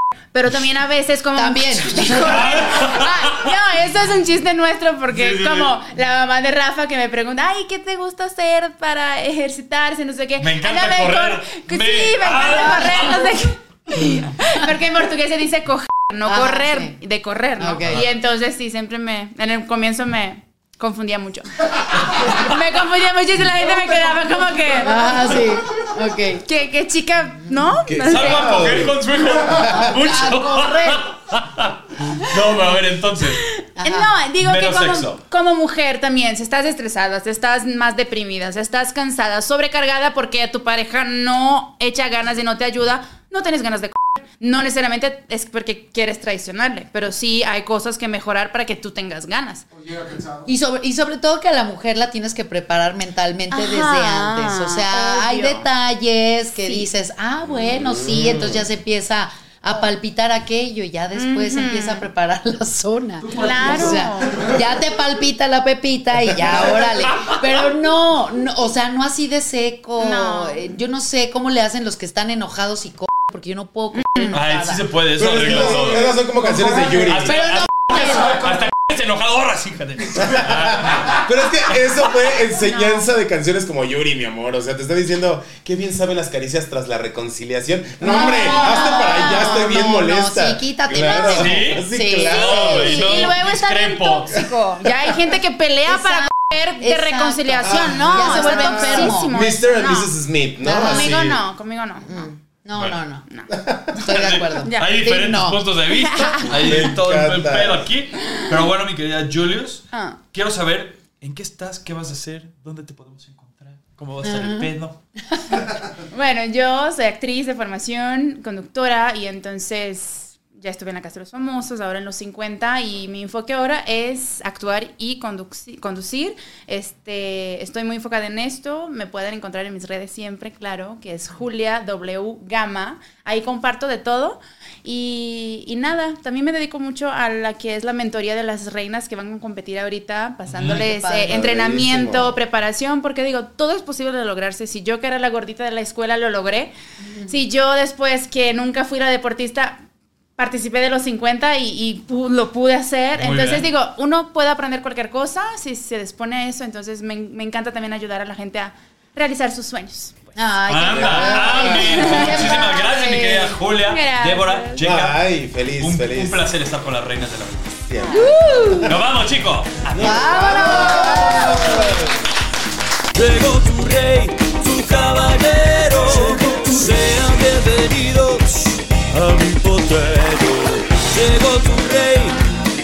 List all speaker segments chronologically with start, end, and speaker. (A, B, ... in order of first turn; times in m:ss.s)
0:00.3-0:25.3 A
0:01.4-0:02.4 B
0:02.1-0:03.5 C
0:05.1-0:05.7 C
0:10.4-0:13.2 C
0:16.3-0:17.0 B
0:17.6-0:18.0 B
0:24.8-0:26.4 B
0:26.4-0:28.7 A
0:27.9-0:29.0 D
0:28.0-0:33.4 C
0:29.6-0:31.1 B
0:29.6-0:29.9 D
0:33.5-0:49.6 A
0:33.8-0:34.1 B
0:34.4-0:35.2 C
0:49.7-0:50.5 E
0:50.5-1:14.8 B
0:53.5-0:55.6 A
0:57.6-0:58.6 D
1:01.1-1:02.0 A
1:03.2-1:04.6 E
1:03.3-1:04.5 A
1:10.0-1:10.7 A
1:13.9-1:14.4 A
1:14.3-1:16.1 C
1:15.2-1:17.4 D
1:15.9-1:17.1 E
1:17.1-1:21.3 C
1:17.4-1:18.5 B
1:20.2-1:33.3 D
1:22.6-1:23.1 A
1:28.0-1:32.7 B
1:28.0-1:29.6 A
1:31.3-1:34.4 C
1:32.3-1:40.1 A
1:35.9-1:39.4 B
1:37.6-1:41.4 D
1:40.6-1:41.3 B
1:40.8-1:42.3 A
1:42.0-1:43.2 B
1:42.8-1:43.0 C
1:43.5-1:44.0 D
1:43.9-1:55.0 C
1:44.0-1:45.6 B
1:44.6-1:44.9 A
1:45.9-1:46.8 A
1:46.5-1:47.9 D
1:49.9-1:50.2 A
1:54.2-1:54.7 B
1:55.3-1:55.6 B
1:56.1-2:26.7 A
2:20.5-2:20.8 C
2:20.6-2:21.4 B
2:21.3-2:22.4 D
2:27.0-2:27.4 B
2:27.3-2:29.8 A
2:30.4-2:40.4 A
2:33.2-2:33.7 C
2:40.4-2:42.9 B
2:40.7-2:45.2 C
2:40.9-2:41.8 D
2:41.2-2:44.9 A
2:44.8-2:46.4 D
2:45.8-2:47.8 C
2:47.9-2:48.9 D
2:48.1-2:48.6 A
2:48.1-2:49.0 B
2:48.8-2:51.1 C
2:49.9-2:52.1 D
2:50.0-2:52.1 B
2:53.1-3:02.4 C